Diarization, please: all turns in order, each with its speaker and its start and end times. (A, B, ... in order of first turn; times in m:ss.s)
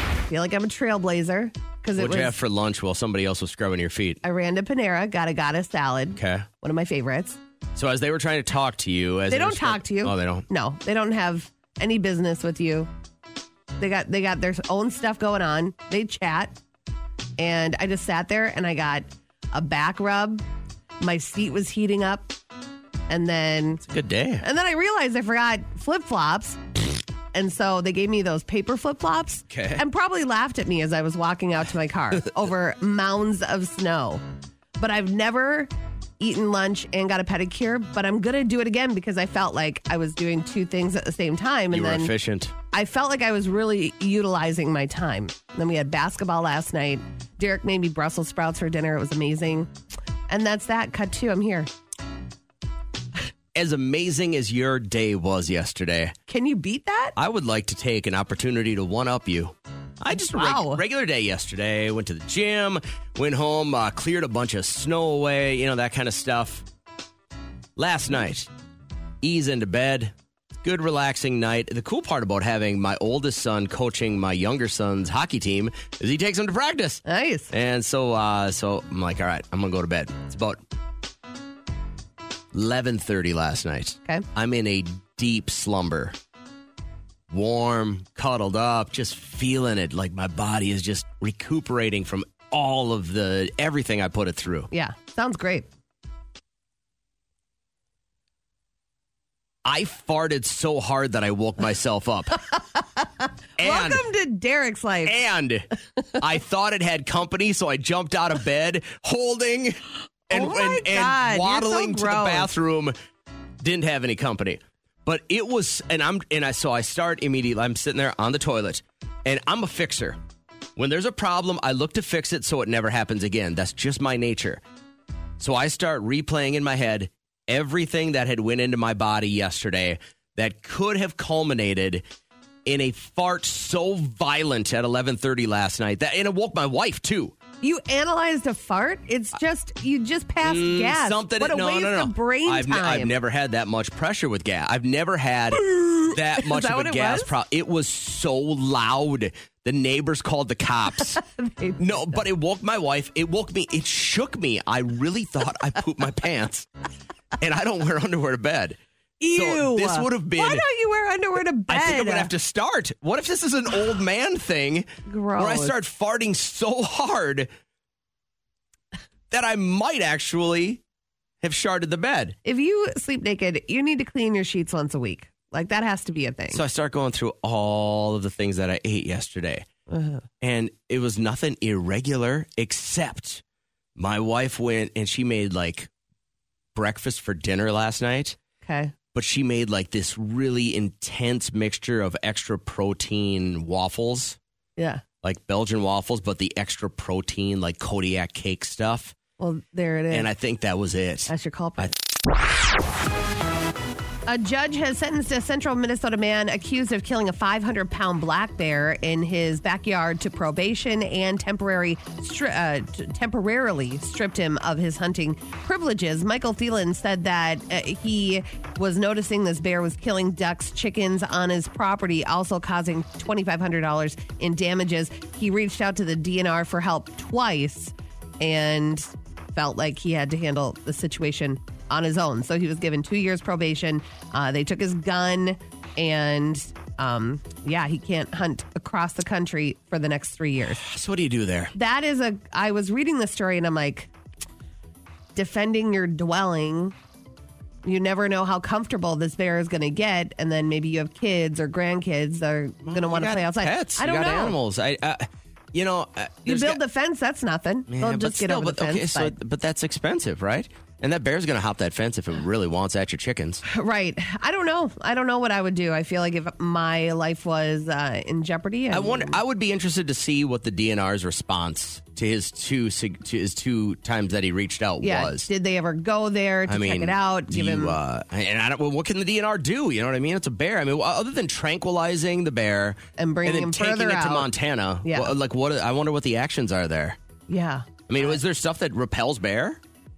0:00.3-0:02.3 A
0:02.0-0:04.2 B
0:04.2-0:07.4 A
0:06.2-0:06.5 B
0:07.8-0:10.5 B
0:09.3-0:12.9 A
0:13.8-0:16.6 A
0:17.4-0:20.4 A
0:21.0-0:22.3 A
0:23.1-0:23.8 A
0:23.9-0:24.4 B
0:24.4-0:26.6 A
0:27.3-0:34.2 A
0:29.5-0:29.8 B
0:34.8-0:42.1 A
0:41.7-0:42.5 B
0:42.7-0:49.7 A
0:50.3-0:51.7 A
0:53.6-0:56.1 B
0:56.3-0:57.1 A
0:57.2-1:06.6 B
1:00.3-1:00.8 A
1:07.8-1:08.5 B
1:09.2-1:20.6 B
1:17.0-1:17.5 A
1:22.5-1:26.2 B
1:27.3-1:34.7 B
1:34.7-1:35.7 A
1:39.6-1:42.5 B
1:43.6-1:45.2 A
1:43.6-1:44.0 B
1:45.0-1:45.7 B
1:46.2-1:52.9 B
1:50.3-1:52.5 A
1:53.6-2:00.2 B
2:00.8-2:04.6 B
2:05.4-2:12.0 B
2:12.7-2:17.3 B
2:17.6-2:23.1 A
2:20.4-2:31.2 B
2:25.6-2:27.3 A
2:31.2-2:32.2 A
2:31.8-2:36.7 B
2:37.4-2:38.8 B
2:39.2-2:42.3 A
2:39.3-2:40.6 B
2:41.7-2:47.5 B
2:45.1-2:45.8 A
2:49.3-2:50.8 B
2:51.4-2:52.4 B
2:52.4-2:56.6 A
2:56.5-2:59.7 B
2:59.9-3:00.2 A
3:00.4-3:03.4 B
3:04.0-3:05.9 B
3:06.8-3:08.4 B
3:08.6-3:08.9 A
3:09.1-3:14.4 B
3:14.8-3:15.0 A
3:15.2-3:19.1 B
3:19.4-3:20.3 A
3:20.1-3:21.9 B
3:21.3-3:21.9 A
3:24.3-4:00.8 A
4:00.7-4:01.7 B
4:01.7-4:04.1 A
4:05.4-4:07.0 A
4:07.8-4:14.6 A
4:12.8-4:16.8 B
4:16.4-4:19.3 A
4:17.9-4:23.6 B
4:23.6-4:29.4 A
4:28.9-4:35.5 B
4:35.0-4:38.0 A
4:36.7-4:47.2 B
4:43.2-4:44.5 A
4:45.0-4:45.3 A
4:47.5-4:48.4 A
4:48.1-4:49.8 B